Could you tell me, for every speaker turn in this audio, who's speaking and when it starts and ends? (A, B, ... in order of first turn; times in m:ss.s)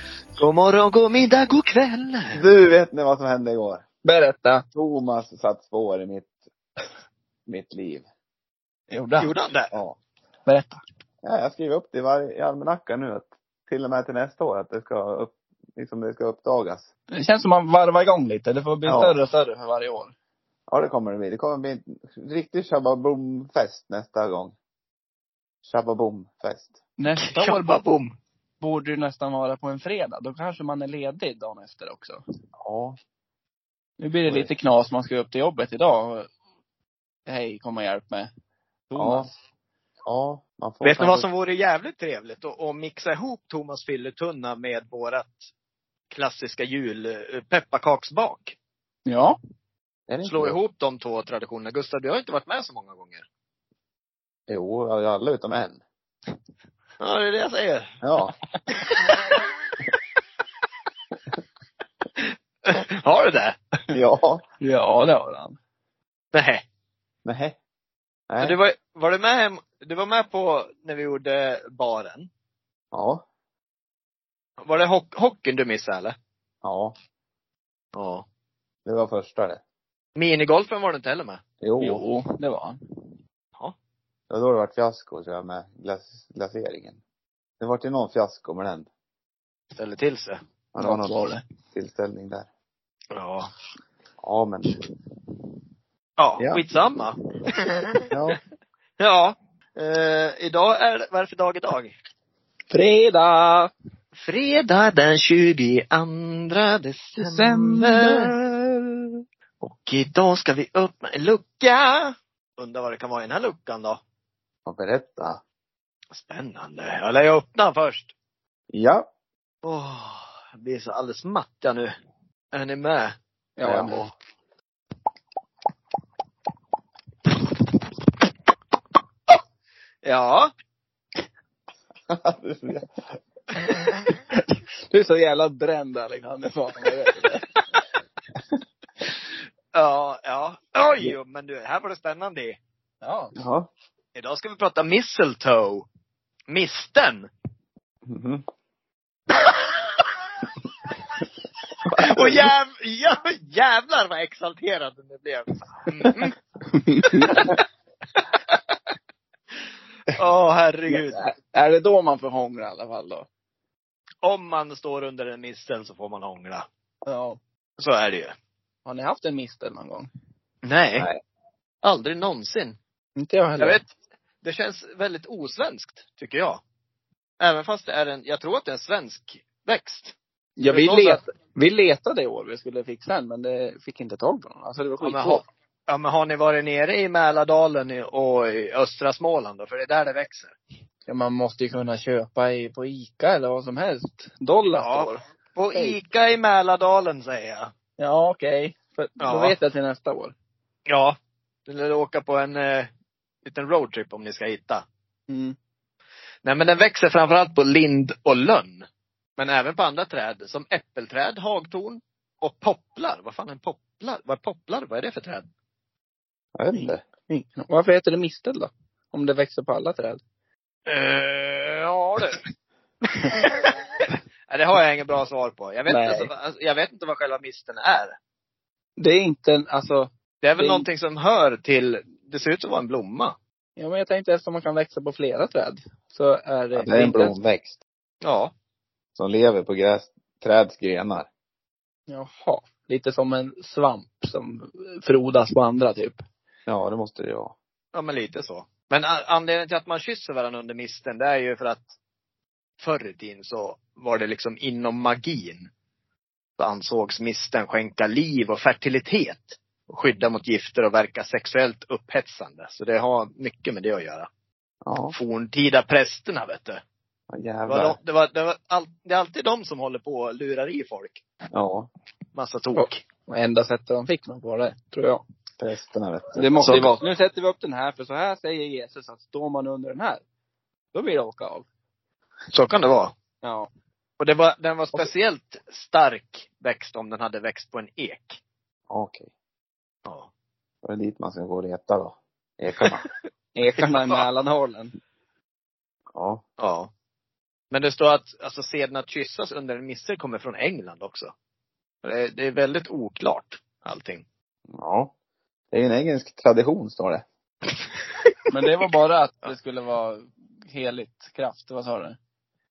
0:00.4-0:02.4 A
0:02.3-0:03.8 B
0:04.0-0:04.6 C
0:04.7-0:06.3 B
0:07.5-0:08.0 B
0:08.9-0:09.3 C
0:09.2-0:09.7 A
0:09.7-0:10.0 B
0:10.5-0:10.8 C
0:11.2-0:16.9 B
0:17.1-0:20.1 C
0:18.8-0:19.2 B
0:20.7-0:24.5 B
0:25.6-0:26.8 B
0:27.0-0:27.8 C
0:27.2-0:28.2 A
0:28.6-0:32.2 C
0:32.6-0:33.0 B
0:34.0-0:36.3 C
0:34.3-0:34.5 B
0:37.2-0:38.3 C
0:38.9-0:39.3 C
0:38.9-0:39.3 B
0:40.0-0:41.3 B
0:40.8-0:45.5 A
0:46.1-0:48.6 A
0:49.0-0:49.4 C
0:50.1-0:50.6 B
0:50.2-0:53.2 A
0:54.5-0:55.8 B
0:57.0-0:57.9 A
0:58.0-0:58.3 B
0:58.9-0:59.4 A
1:02.7-1:03.6 A
1:03.9-1:04.4 B
1:04.6-1:05.6 C
1:06.3-1:06.6 A
1:07.2-1:07.6 B
1:08.3-1:08.6 B
1:08.4-1:12.3 A
1:12.9-1:13.2 B
1:14.6-1:16.1 A
1:16.6-1:16.9 B
1:18.0-1:18.2 A
1:18.8-1:19.6 B
1:20.2-1:21.4 A
1:21.6-1:22.0 B
1:21.8-1:22.8 C
1:24.3-1:27.0 B
1:27.6-1:28.9 B
1:29.7-1:30.4 A
1:30.7-1:32.5 B
1:30.8-1:31.4 C
1:33.1-1:33.5 A
1:34.2-1:34.7 B
1:36.2-1:37.2 A
1:36.4-1:36.6 B
1:38.1-1:38.4 B
1:39.0-1:42.0 A
1:42.7-1:43.7 C
1:44.2-1:48.3 A
1:47.2-1:48.3 C
1:49.6-1:54.0 A
1:54.6-1:55.4 B
1:56.1-1:58.1 A
1:58.7-1:59.1 B
1:59.6-2:01.9 A
2:02.5-2:03.1 A
2:03.6-2:04.0 C
2:03.6-2:04.1 B
2:10.0-2:10.5 A
2:12.1-2:13.0 B
2:14.9-2:17.5 C
2:19.7-2:22.6 A
2:23.0-2:23.4 C
2:23.4-2:23.7 B
2:24.2-2:25.8 A
2:26.5-2:27.3 A
2:28.1-2:28.4 B
2:31.9-2:32.5 B
2:32.0-2:36.4 A
2:36.7-2:37.6 C
2:37.1-2:37.6 A
2:40.1-2:41.3 A
2:40.9-2:43.3 C
2:44.2-2:46.7 A
2:47.1-2:47.4 C
2:47.8-2:48.3 A
2:48.8-2:50.1 C
2:50.6-2:51.1 A
2:51.0-2:51.2 B
2:51.8-2:52.8 A
2:53.2-2:53.9 C
2:53.6-2:53.9 A
2:54.4-2:56.6 A
2:57.4-3:00.2 A
3:00.6-3:05.5 C
3:00.7-3:01.2 A
3:05.0-3:10.6 A
3:11.1-3:16.0 C
3:14.7-3:17.7 A
3:18.0-3:20.3 C
3:19.2-3:19.6 A
3:20.9-3:21.2 A
3:21.7-3:22.9 A
3:23.4-3:24.8 A
3:25.3-3:25.6 C
3:26.4-3:28.9 A
3:29.4-3:35.5 A
3:36.6-3:37.0 B
3:36.7-3:40.2 C
3:40.9-3:42.4 A
3:43.4-3:43.6 A
3:44.5-3:48.2 A
3:45.9-3:46.3 C
3:49.0-3:50.9 C
3:50.4-3:53.3 A
3:53.8-3:57.4 C
3:56.7-3:57.8 B
3:58.2-3:58.5 A
3:59.2-4:01.3 B
4:02.1-4:06.2 C
4:06.7-4:07.5 B
4:07.9-4:11.9 A
4:12.8-4:15.7 A
4:16.6-4:24.3 A
4:24.8-4:25.2 B
4:25.1-4:26.8 A
4:27.3-4:28.0 B
4:27.7-4:31.2 A
4:31.5-4:31.9 B
4:32.3-4:33.0 A
4:32.8-4:35.2 C
4:35.6-4:36.9 B
4:36.4-4:40.2 C
4:36.6-4:36.9 A
4:40.9-4:41.6 C
4:42.5-4:43.1 A
4:43.4-4:43.7 C
4:44.2-4:48.4 A
4:48.9-4:49.3 B
4:50.8-4:53.1 B
4:53.5-4:54.9 C
4:53.8-4:54.2 A
4:56.1-4:56.4 B
4:56.6-4:56.9 A
4:57.7-5:01.3 A
5:02.0-5:04.2 A
5:04.7-5:05.1 B
5:05.7-5:07.2 B
5:08.5-5:12.2 C